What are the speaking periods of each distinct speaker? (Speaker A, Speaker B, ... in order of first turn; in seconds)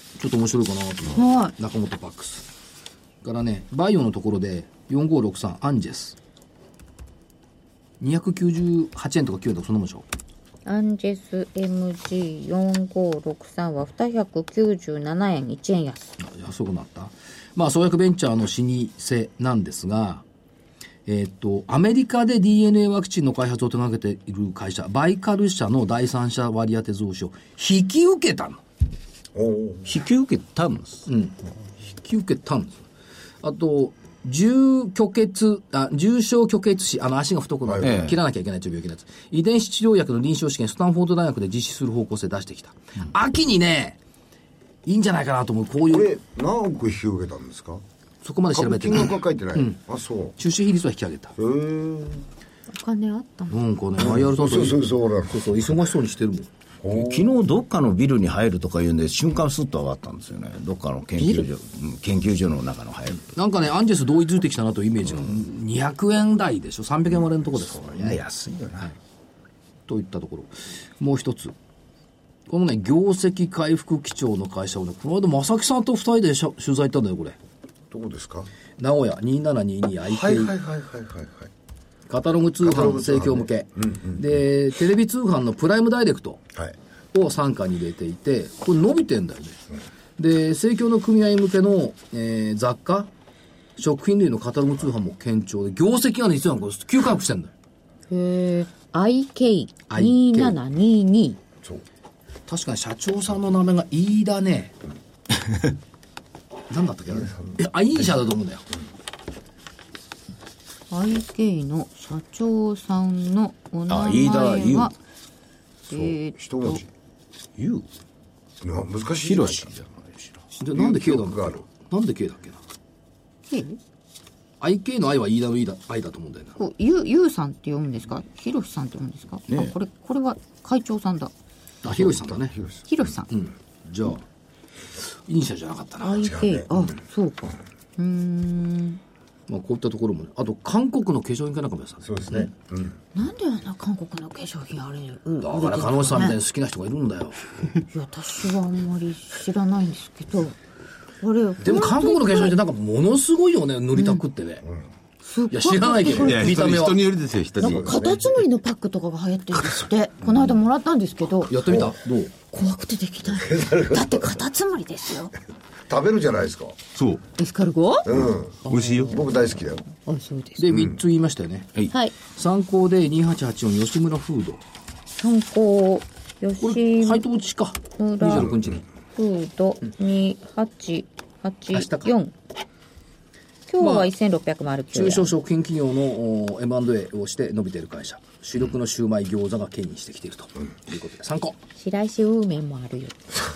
Speaker A: 0.2-2.5, 3.2-6.2, 8.0-10.1, 16.2-20.2, 21.1-28.6, 31.1-31.4, 31.9-32.9, 33.4-44.0, 44.9-46.1, 48.2-49.8, 50.4-51.4, 53.5-56.5, 63.3-68.2, 69.9-71.5, 72.5-77.4, 78.8-80.5, 82.1-86.4, 87.1-89.6, 90.2-93.1, 93.8-97.5, 99.9-100.5, 102.5-104.8, 106.7-108.7, 120.6-122.6, 124.6-126.6, 131.8-132.6, 133.3-134.2, 135.3-136.2, 139.5-142.4, 145.4-147.5, 151.6-154.7, 155.5-157.1, 161.5-162.3, 170.6-174.6, 176.6-178.8, 181.7-182.1, 183.8-184.1, 184.9-191.6
Speaker B: 1.1-1.5, 10.7-16.2, 52.7-53.6, 98.1-101.4, 110.9-114.9, 115.9-116.8, 123.5-123.8, 126.6-131.3, 132.9-133.3, 136.0-139.0, 143.2-146.4, 147.9-150.6, 151.2-152.6, 153.9-154.2, 155.2-156.8, 157.6-161.6, 162.5-165.3, 167.4-170.6, 175.2-177.2, 178.0-178.6, 179.2-182.3, 183.7-185.3, 191.8-193.4
Speaker C: 29.4-29.9, 37.7-38.0, 45.9-47.8, 48.5-50.4, 51.4-52.3, 54.0-55.4, 56.8-57.3, 77.9-78.5, 80.1-81.5, 82.6-84.2, 107.1-107.6, 115.9-116.9, 118.6-119.7, 120.7-121.6, 131.9-132.9, 136.2-136.9, 142.0-143.0, 157.6-158.4, 163.4-164.2, 165.9-166.8, 168.1-169.8, 170.7-171.0, 178.3-178.6
Speaker D: 29.9-31.0, 37.8-38.2, 56.9-63.3, 67.8-68.9, 113.9-114.9, 117.6-117.8, 119.2-120.3, 129.5-129.7
Speaker E: 156.1-157.9, 167.0-167.2, 168.7-169.2